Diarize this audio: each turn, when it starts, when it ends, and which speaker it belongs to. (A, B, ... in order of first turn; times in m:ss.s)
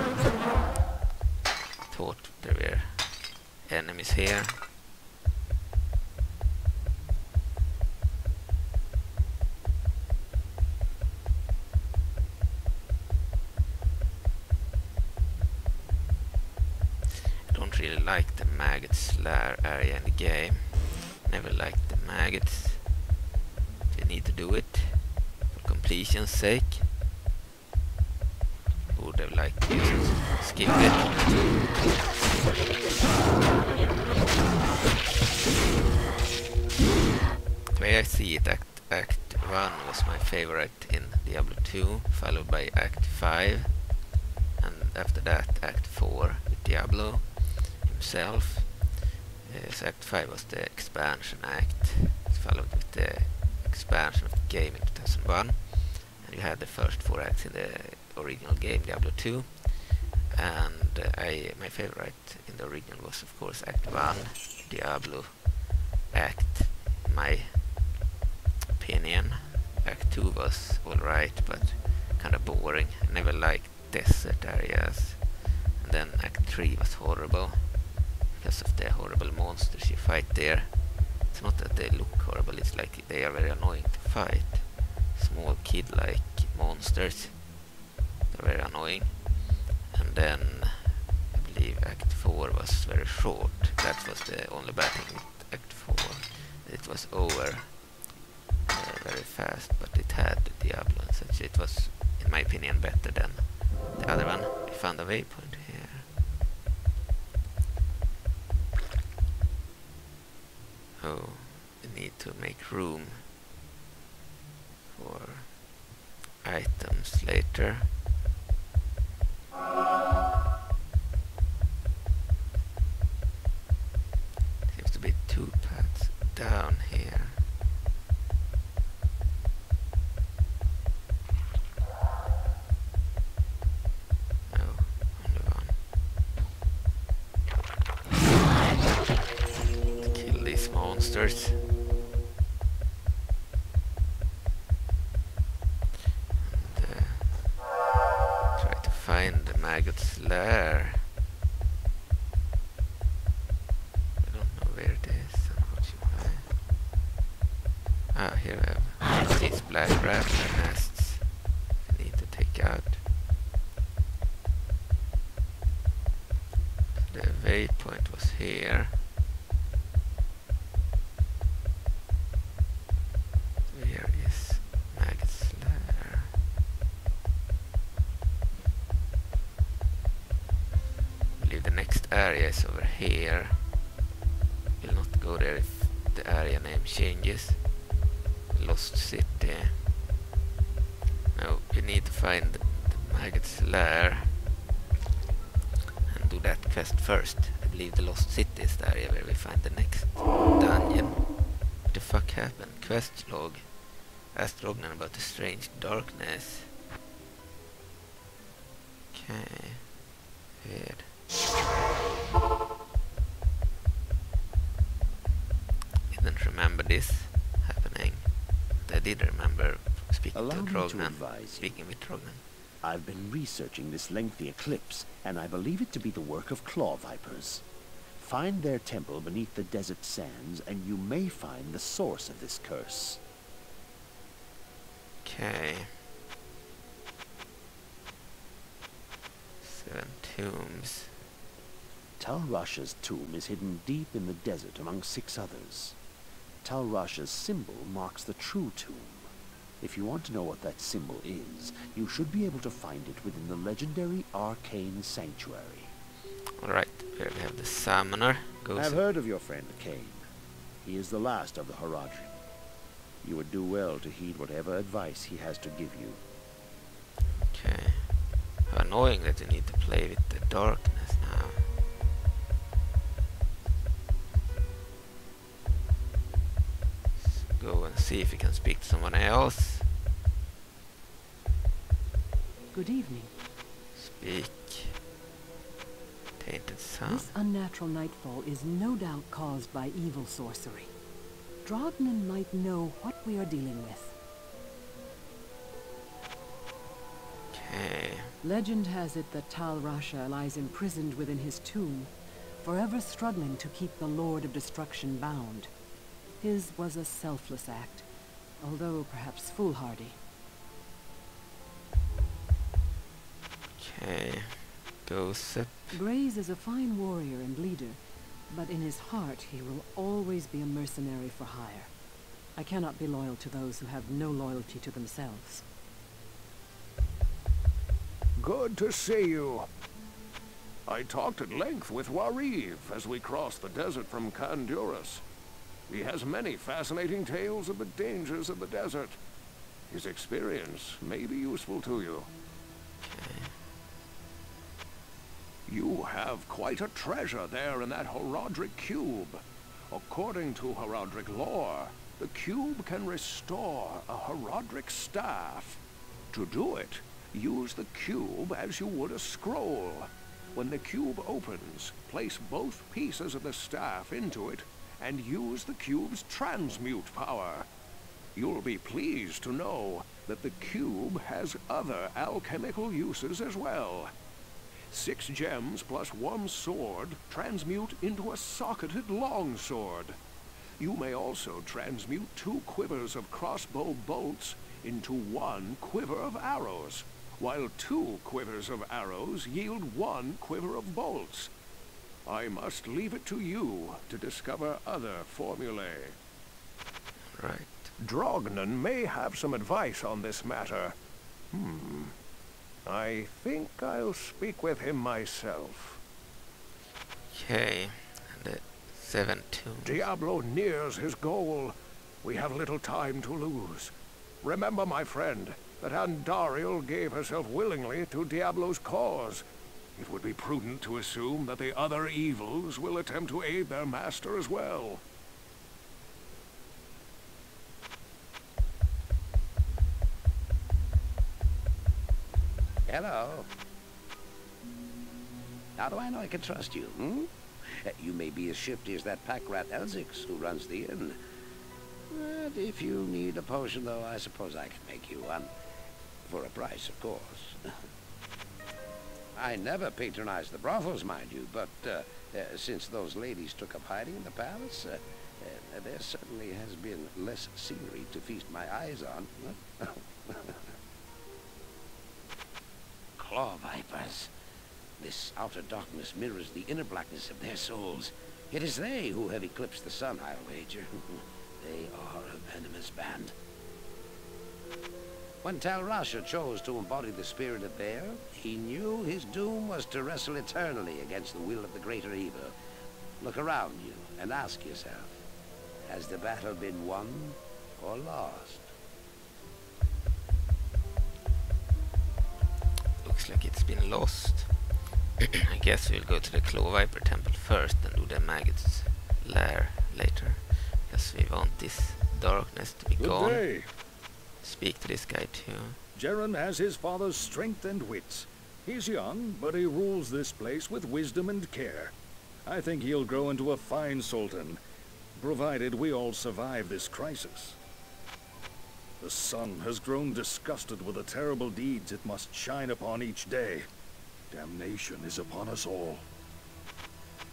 0:01.9-0:04.6 A
0:17.5-0:22.9 A
0:23.9-0:26.9 A
0:28.9-0:31.4 A
0:37.7-0:43.8 A
0:44.6-1:05.6 A
1:06.1-1:07.6 A
1:08.8-1:17.7 A
1:18.4-1:20.7 A
1:21.3-1:27.4 A
1:28.3-1:29.3 A
1:29.9-1:37.8 A
1:38.7-1:46.1 A
1:51.0-1:53.3 A
1:54.9-1:55.5 A
1:56.4-1:57.9 A
2:04.7-2:07.4 A
2:14.5-2:15.8 A
2:20.0-2:21.6 A
2:26.4-2:27.5 A
2:28.6-2:31.0 A
2:34.2-2:36.5 A
2:38.1-2:41.3 A
2:41.8-2:43.0 A
2:47.1-2:49.0 A
2:53.7-2:56.3 A
3:01.4-3:03.6 A
3:04.8-3:07.6 A
3:08.5-3:09.8 A
3:11.3-3:14.3 A
3:16.1-3:21.3 A
3:21.9-3:23.6 A
3:24.3-3:26.7 A
3:29.1-3:29.9 A
3:30.6-3:31.1 A
3:36.1-3:38.3 A
3:38.8-3:42.4 A
3:40.3-3:41.6 B
3:42.8-3:47.6 B
3:48.2-3:53.2 B
3:55.2-3:55.9 A
3:59.6-4:01.1 A
4:02.2-4:06.0 B
4:06.6-4:09.3 B
4:09.8-4:15.9 B
4:16.6-4:19.0 A
4:18.7-4:20.2 B
4:20.8-4:22.3 B
4:23.2-4:26.2 B
4:27.5-4:28.1 A
4:28.7-4:31.7 A
4:37.2-4:39.9 A
4:42.7-4:43.3 C
4:43.9-4:45.0 A
4:46.4-4:47.3 A
4:47.0-4:50.9 C
4:51.6-4:54.1 C
4:57.5-4:58.3 A
4:58.4-5:02.1 C
5:02.6-5:05.7 C
5:06.4-5:08.0 C
5:08.6-5:10.2 C
5:13.8-5:16.0 A
5:15.9-5:21.9 C
5:22.6-5:25.6 C
5:28.4-5:29.6 D
5:30.9-5:35.2 D
5:35.9-5:39.2 D
5:39.9-5:42.3 D
5:43.0-5:43.6 A
5:45.7-5:55.8 D
5:56.3-6:07.6 D
6:08.4-6:14.1 D
6:14.9-6:20.2 D
6:20.8-6:31.5 D
6:32.3-6:36.1 D
6:37.3-6:37.9 A
6:38.0-6:40.9 D
6:41.5-6:42.1 D
6:42.9-6:46.0 D
6:47.3-6:50.0 A
6:49.8-6:53.9 D
6:54.4-6:59.4 D
7:00.0-7:05.0 D
7:12.9-7:13.5 E
7:15.8-7:17.3 E
7:17.8-7:21.2 E
7:22.1-7:25.5 E
7:26.3-7:27.6 E
7:29.4-7:40.6 E
7:43.2-7:44.3 E
7:45.0-7:53.3 E
7:55.4-8:02.6 E
8:03.2-8:05.2 E
8:05.9-8:08.7 E
8:13.0-8:14.5 A
8:15.3-8:23.5 A
8:23.0-8:23.7 F
8:24.4-8:25.8 A
8:25.9-8:31.9 F
8:32.5-8:34.6 F
8:35.2-8:37.6 F
8:39.0-8:43.6 F
8:44.3-8:46.0 F